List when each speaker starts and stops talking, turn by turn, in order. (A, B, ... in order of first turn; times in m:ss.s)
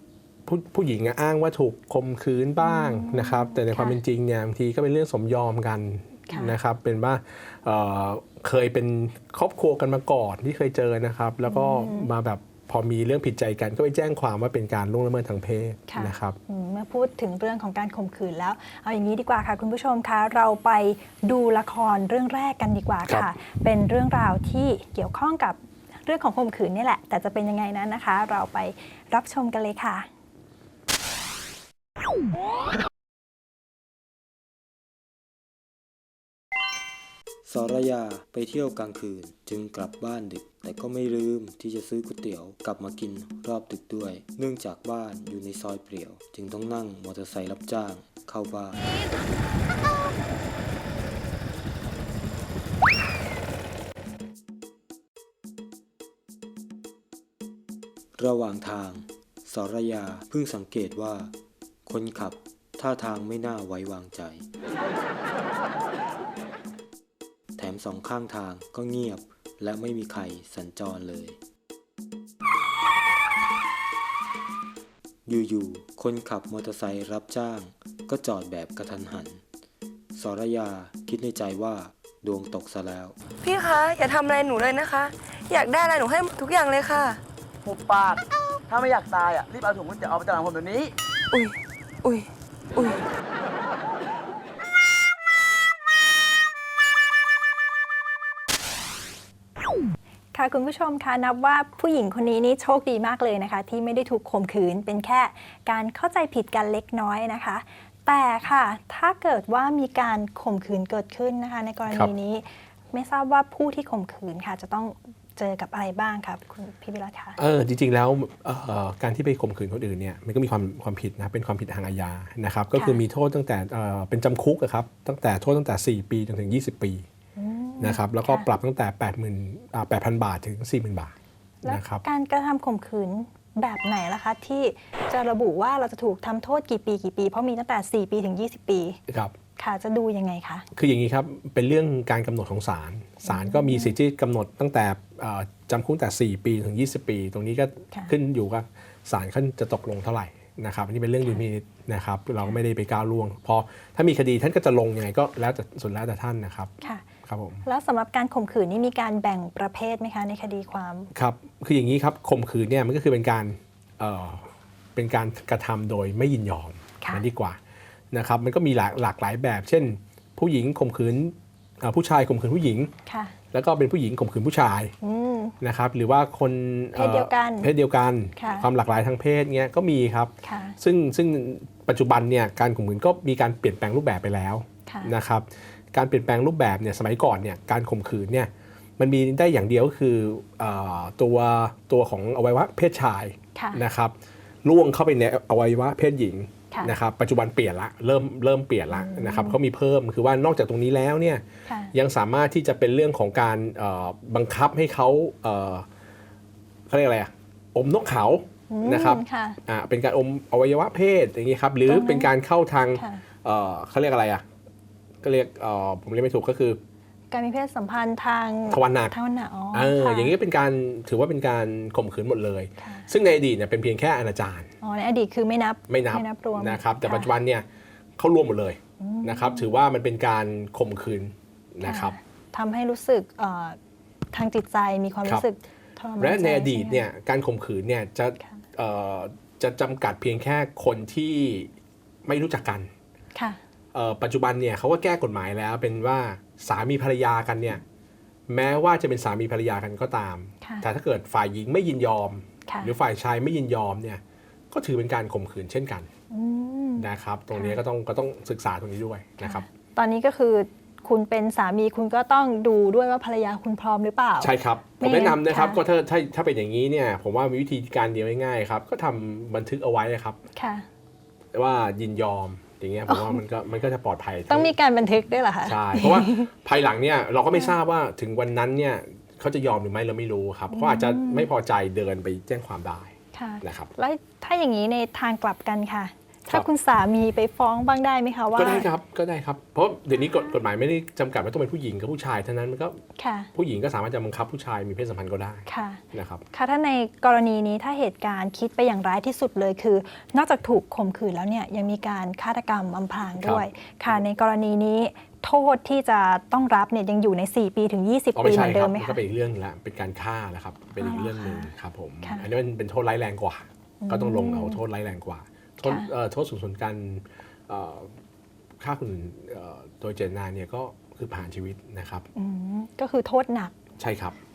0:00.4-0:16.4 A
0:02.6-0:04.0 B
0:06.3-0:06.5 B
0:11.4-0:12.1 B
0:15.9-0:30.1 B
0:37.4-0:48.8 C
0:58.2-1:01.3 C
1:01.9-1:04.5 C
1:07.6-1:11.4 C
1:15.2-1:19.4 C
1:20.1-1:23.1 C
1:23.4-1:27.2 D
1:27.6-1:30.9 E
1:31.3-1:33.0 D
1:40.3-1:57.4 B
1:57.4-2:07.1 A
2:02.8-2:03.0 B
2:07.4-2:08.5 B
2:07.8-2:11.1 A
2:11.6-2:19.0 B
2:11.6-2:12.0 A
2:19.1-2:19.3 A
2:19.6-2:20.7 B
2:20.7-2:36.7 A
2:23.2-2:23.9 B
2:37.2-2:37.6 A
2:37.6-2:41.1 B
2:41.1-2:47.6 A
2:48.1-2:52.9 A
2:53.1-2:53.4 B
2:53.5-2:54.9 A
2:55.0-2:55.6 B
2:55.6-3:25.9 A
2:56.9-2:57.7 B
2:58.4-2:58.7 B
3:00.4-3:00.8 B
3:04.9-3:05.1 B
3:13.6-3:13.8 B
3:18.9-3:19.6 B
3:21.7-3:21.9 B
3:26.9-3:34.4 A
3:28.7-3:29.6 B
3:31.9-3:32.3 B
3:32.9-3:33.2 B
3:35.2-3:36.8 A
3:37.3-3:40.3 B
3:38.7-3:39.1 A
3:39.7-3:44.7 A
3:42.8-3:43.1 B
3:44.8-3:47.3 B
3:45.9-3:47.6 A
3:48.2-3:52.2 A
3:49.0-3:49.8 B
3:51.8-3:53.8 B
3:54.3-3:57.0 B
3:56.2-4:01.7 A
4:02.2-4:02.9 A
4:03.9-4:07.8 A
4:08.5-4:16.1 A
4:10.6-4:10.9 B
4:12.7-4:12.9 B
4:16.3-4:17.8 B
4:17.0-4:19.6 A
4:19.4-4:25.8 B
4:24.4-4:30.4 A
4:30.5-4:30.9 B
4:31.5-4:34.7 A
4:33.1-4:33.4 B
4:34.5-4:36.5 B
4:35.6-4:43.9 A
4:40.7-4:41.5 B
4:43.3-4:48.9 B
4:48.5-4:53.0 A
4:50.2-4:50.6 B
4:53.2-4:53.5 B
4:53.5-4:56.4 A
4:55.7-5:09.2 B
5:08.4-5:18.2 A
5:11.0-5:11.7 B
5:12.2-5:12.5 B
5:14.0-5:14.8 B
5:18.8-5:22.3 A
5:22.4-5:23.8 B
5:24.0-5:24.4 A